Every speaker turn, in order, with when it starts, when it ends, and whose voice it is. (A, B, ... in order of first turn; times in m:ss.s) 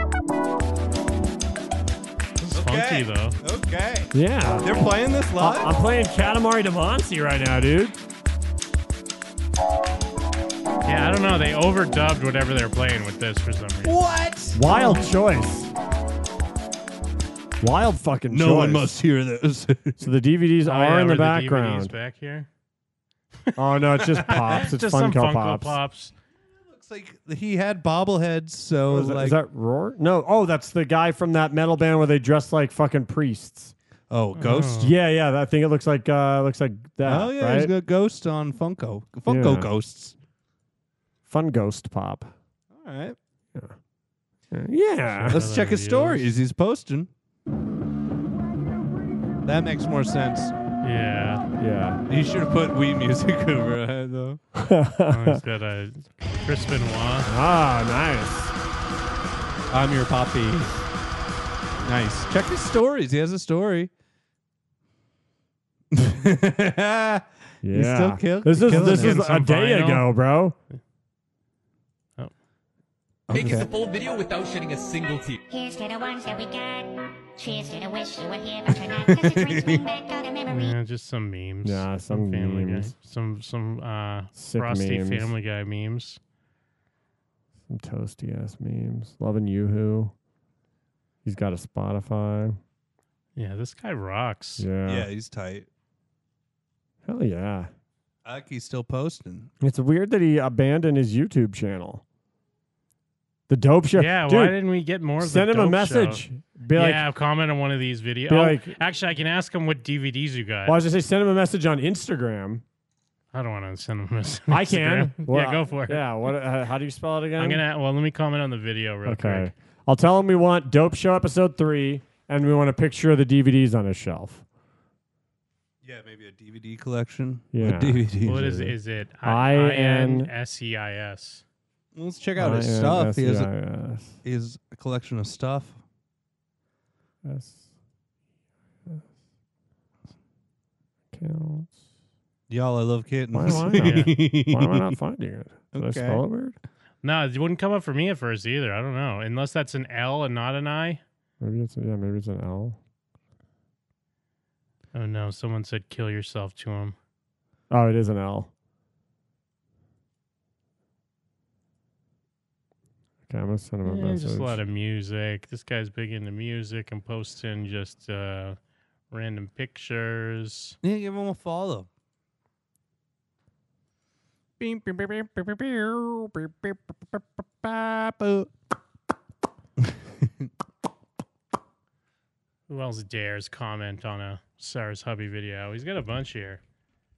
0:02.4-0:03.4 A
0:02.5-0:05.7 B
0:04.1-0:04.7 C
0:05.4-0:08.0 C
0:10.9-0:14.0 A
0:13.8-0:14.6 B
0:14.5-0:15.7 C
0:17.6-0:18.9 C
0:18.3-0:20.0 B
0:20.0-0:21.9 C
0:20.6-0:22.5 A
0:23.6-0:25.8 C
0:24.3-0:26.1 A
0:26.7-0:29.4 B
0:28.9-0:33.7 C
0:34.1-0:34.9 B
0:34.4-0:34.9 A
0:34.8-0:37.7 C
0:37.0-0:40.1 B
0:39.3-0:39.7 C
0:41.3-0:42.3 C
0:42.7-0:43.2 B
0:44.5-0:45.4 C
0:45.2-0:47.1 B
0:45.3-0:46.3 A
0:49.5-0:50.5 B
0:50.8-0:51.4 A
0:51.6-0:52.0 C
0:52.1-0:54.4 B
0:54.6-0:55.4 C
0:55.1-0:57.3 A
0:57.3-0:58.5 C
0:59.7-1:00.8 B
1:01.8-1:03.9 B
1:05.9-1:09.3 B
1:07.6-1:10.6 C
1:08.8-1:10.1 A
1:13.3-1:13.7 B
1:13.3-1:15.4 D
1:15.5-1:20.8 E
1:18.7-1:19.8 B
1:20.5-1:26.2 A
1:21.6-1:22.9 C
1:24.4-1:25.3 C
1:27.7-1:30.1 C
1:31.2-1:32.6 C
1:33.4-1:34.6 A
1:34.6-1:35.1 C
1:34.9-1:35.7 B
1:37.0-1:37.7 C
1:38.2-1:39.5 B
1:39.6-1:42.0 C
1:43.5-1:44.6 C
1:44.0-1:46.2 A
1:45.2-1:47.0 C
1:46.7-1:50.8 A
1:48.3-1:48.7 C
1:50.6-1:52.6 C
1:53.3-1:56.1 A
1:54.5-1:57.6 C
1:57.4-1:59.5 A
1:59.0-2:04.4 C
2:05.8-2:08.7 B
2:07.5-2:08.5 C
2:08.2-2:11.4 A
2:09.2-2:10.3 C
2:12.0-2:13.5 B
2:12.4-2:14.2 C
2:14.2-2:15.8 B
2:17.2-2:17.6 C
2:21.1-2:21.8 C
2:22.5-2:25.0 B
2:23.3-2:26.6 C
2:23.8-2:24.1 A
2:25.7-2:26.2 B
2:27.0-2:31.0 A
2:31.4-2:32.8 C
2:34.9-2:37.0 A
2:37.7-2:38.5 C
2:43.3-2:44.6 C
2:43.8-2:48.6 A
2:49.1-2:50.8 A
2:50.8-2:51.9 B
2:54.6-2:58.5 B
3:02.7-3:06.6 A